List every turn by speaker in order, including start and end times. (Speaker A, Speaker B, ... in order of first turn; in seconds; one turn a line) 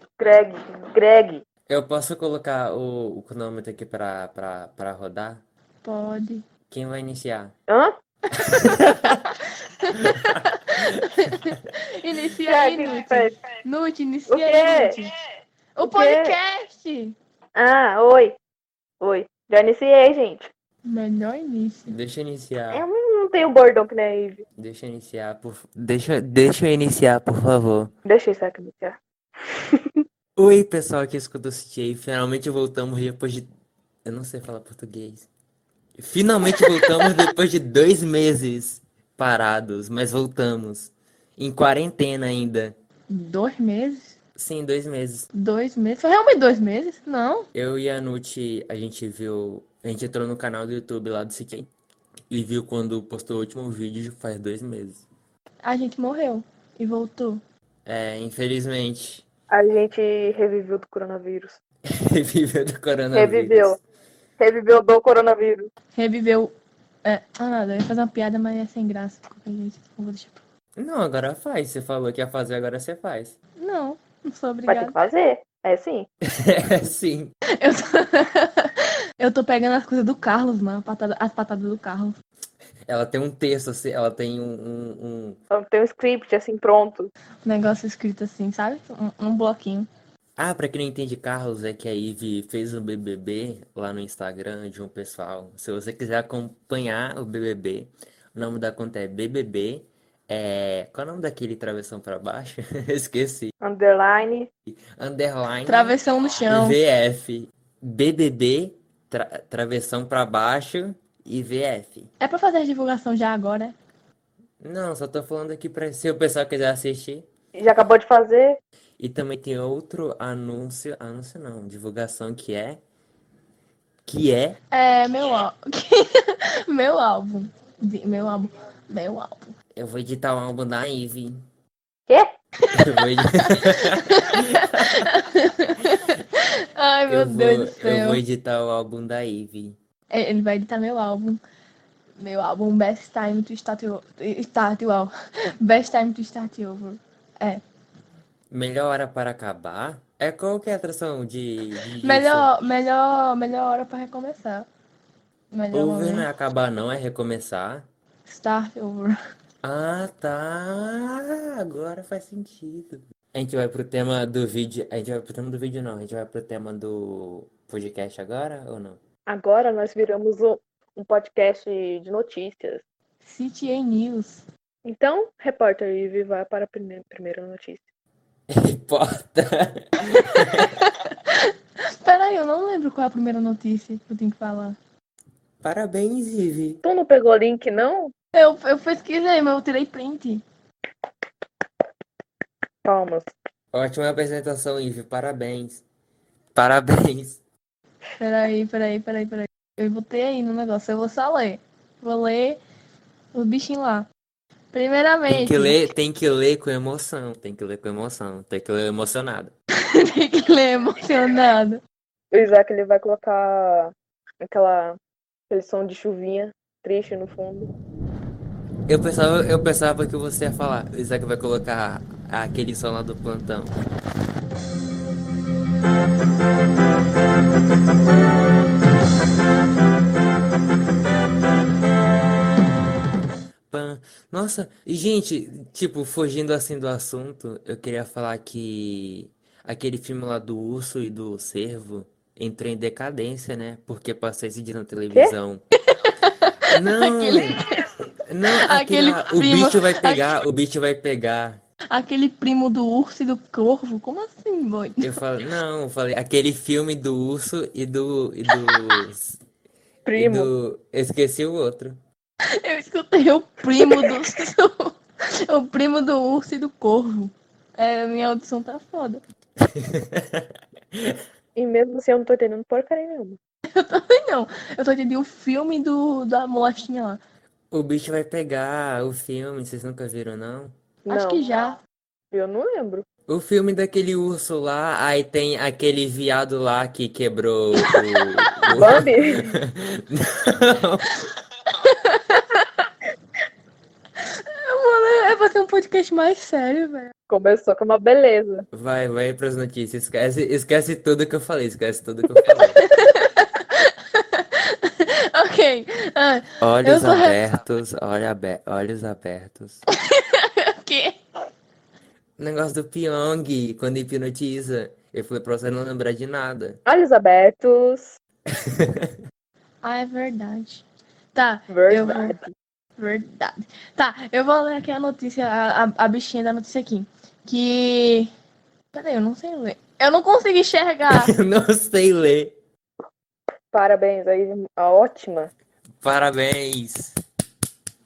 Speaker A: 0.2-1.4
Speaker B: 1.7-5.4
Speaker C: 5.8-6.4
Speaker B: 6.7-7.5
Speaker A: 7.7-8.0
Speaker B: 8.4-9.2
Speaker C: 9.8-15.1
Speaker B: 10.0-11.4
Speaker A: 12.5-13.4
Speaker A: 14.3-15.0
Speaker C: 15.8-17.1
Speaker A: 15.8-16.4
Speaker A: 17.6-18.4
Speaker A: 19.0-20.5
Speaker C: 20.9-21.9
Speaker B: 21.9-22.9
Speaker A: 22.7-24.4
Speaker B: 24.6-27.9
Speaker A: 28.1-30.0
Speaker B: 30.4-33.5
Speaker B: 34.0-35.3
Speaker B: 36.0-42.8
Speaker C: 36.5-37.1
Speaker C: 43.1-44.1
Speaker B: 44.4-45.3
Speaker C: 45.3-47.5
Speaker B: 47.5-51.7
Speaker B: 52.3-55.0
Speaker C: 55.6-57.4
Speaker B: 57.9-59.3
Speaker A: 59.5-61.6
Speaker B: 61.9-63.8
Speaker A: 63.1-63.8
Speaker A: 64.4-65.7
Speaker C: 66.0-66.5
Speaker C: 67.0-70.4
Speaker B: 70.8-73.3
Speaker C: 73.6-75.0
Speaker A: 74.7-76.1
Speaker B: 76.2-77.3
Speaker C: 77.5-82.2
Speaker B: 82.9-85.4
Speaker A: 85.5-87.1
Speaker C: 87.4-89.9
Speaker B: 90.4-103.5
Speaker A: 103.6-104.5
Speaker B: 104.7-106.0
Speaker C: 105.7-106.8
Speaker B: 106.5-112.1
Speaker C: 112.2-113.8
Speaker B: 114.6-117.3
Speaker A: 117.5-118.6
Speaker B: 119.0-122.8
Speaker B: 124.1-124.6
Speaker C: 124.7-129.5
Speaker B: 129.8-131.4
Speaker C: 132.6-138.2
Speaker B: 132.7-135.0
Speaker B: 137.1-139.8
Speaker C: 140.1-141.4
Speaker C: 142.2-147.6
Speaker B: 148.5-152.5
Speaker C: 152.0-154.7
Speaker C: 155.5-156.3
Speaker B: 155.7-157.8
Speaker C: 158.3-159.2
Speaker B: 159.6-169.0
Speaker A: 169.3-172.8
Speaker C: 173.2-174.4
Speaker A: 174.8-177.8
Speaker B: 178.5-180.8
Speaker C: 180.1-184.8
Speaker B: 185.6-186.8
Speaker A: 186.8-188.1
Speaker C: 188.3-190.4
Speaker A: 192.8-193.3
Speaker B: 193.7-195.8
Speaker B: 196.6-197.4
Speaker C: 198.2-202.6
Speaker C: 203.3-204.1
Speaker C: 204.7-205.9
Speaker B: 205.3-209.5
Speaker C: 209.8-211.8
Speaker A: 212.3-215.0
Speaker A: 215.5-217.7
Speaker B: 218.9-223.7
Speaker B: 233.7-245.6
Speaker C: 245.9-247.9
Speaker B: 246.7-247.7
Speaker B: 248.3-251.6
Speaker C: 248.5-250.3
Speaker C: 251.9-255.2
Speaker B: 255.0-259.4
Speaker A: 260.1-260.5
Speaker B: 260.1-262.0
Speaker C: 262.5-269.2
Speaker A: 263.8-264.2
Speaker B: 269.6-271.2
Speaker A: 271.6-273.4
Speaker C: 273.7-277.2
Speaker B: 277.7-280.7
Speaker A: 281.1-281.4
Speaker C: 281.1-281.8
Speaker A: 282.3-283.1
Speaker B: 283.3-291.1
Speaker A: 288.7-289.5
Speaker C: 291.7-292.8
Speaker C: 294.2-297.1
Speaker A: 297.3-298.7
Speaker B: 298.7-302.9
Speaker C: 302.8-307.5
Speaker B: 306.6-309.8
Speaker C: 310.0-311.2
Speaker B: 312.4-316.8
Speaker A: 316.9-318.2
Speaker B: 318.5-319.2
Speaker C: 319.8-320.8
Speaker C: 321.3-322.4
Speaker A: 321.7-322.5
Speaker C: 323.0-328.3
Speaker C: 328.9-331.3
Speaker B: 331.1-332.6
Speaker A: 333.7-335.5
Speaker B: 336.0-337.2